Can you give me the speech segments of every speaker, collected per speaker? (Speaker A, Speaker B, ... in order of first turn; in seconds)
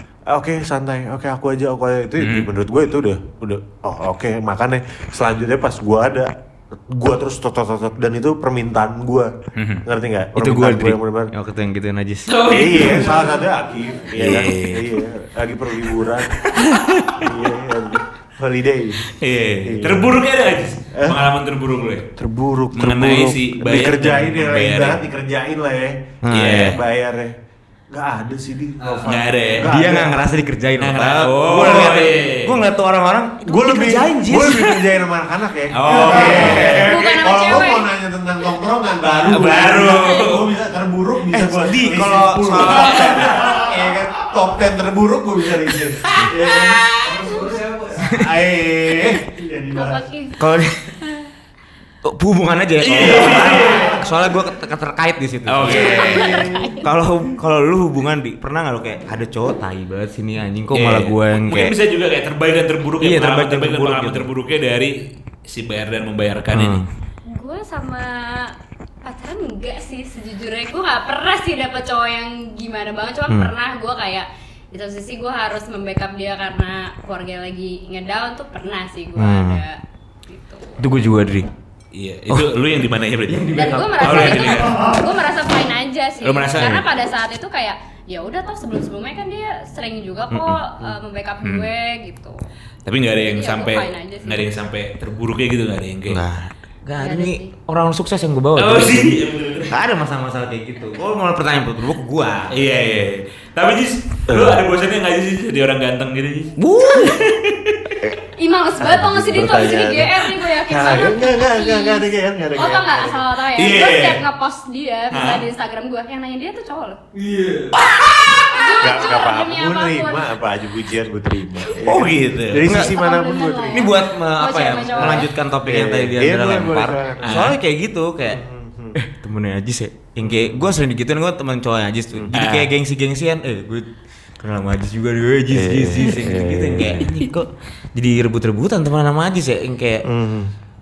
Speaker A: 0.3-9.3, 9.8-11.3, 12.5-16.4, 17.2-19.1, 19.6-20.1, 20.9-21.2, 22.1-27.3, 27.9-30.2, 31.5-32.0, 33.4-50.0, 53.4-53.9, 56.0-56.7, 104.3-104.6, 108.8-113.2, 118.8-123.9, 125.0-127.5, 128.3-129.0, 130.2-130.6, 135.5-137.1, 140.1-140.5
Speaker B: 2.2-2.5, 9.6-9.8, 12.3-13.4, 14.2-14.9, 16.5-17.3, 19.1-22.0, 22.7-25.0, 26.3-26.8, 28.9-29.7, 30.8-32.6, 35.7-37.2, 39.2-40.5, 42.6-43.7, 52.8-54.0, 55.5-56.5, 60.7-66.8, 81.9-84.8, 86.2-86.8, 91.4-91.7, 92.8-96.2, 98.5-99.7, 102.5-107.8, 113.5-114.2, 115.1-115.4, 117.7-118.6, 121.9-122.6, 127.2-127.5, 132.3-132.7
Speaker C: 10.3-12.4, 26.2-26.7, 29.6-34.8, 35.9-37.0, 41.3-43.4, 46.1-46.7, 48.0-48.3, 50.4-50.9, 52.0-56.2, 56.8-61.7, 63.0-64.3, 66.5-66.9, 79.2-79.6, 80.8-81.5, 83.3-85.0, 90.3-90.6, 96.1-102.6, 106.6-107.3, 121.8-122.9, 123.7-128.4, 128.9-140.1
Speaker D: 36.6-37.9, 39.9-40.2, 47.2-47.6, 49.7-50.4, 55.6-56.9, 67.3-68.5, 69.0-80.8, 83.5-92.4, 93.2-94.5, 97.0-97.5, 108.4-117.0, 118.5-120.3, 122.7-125.3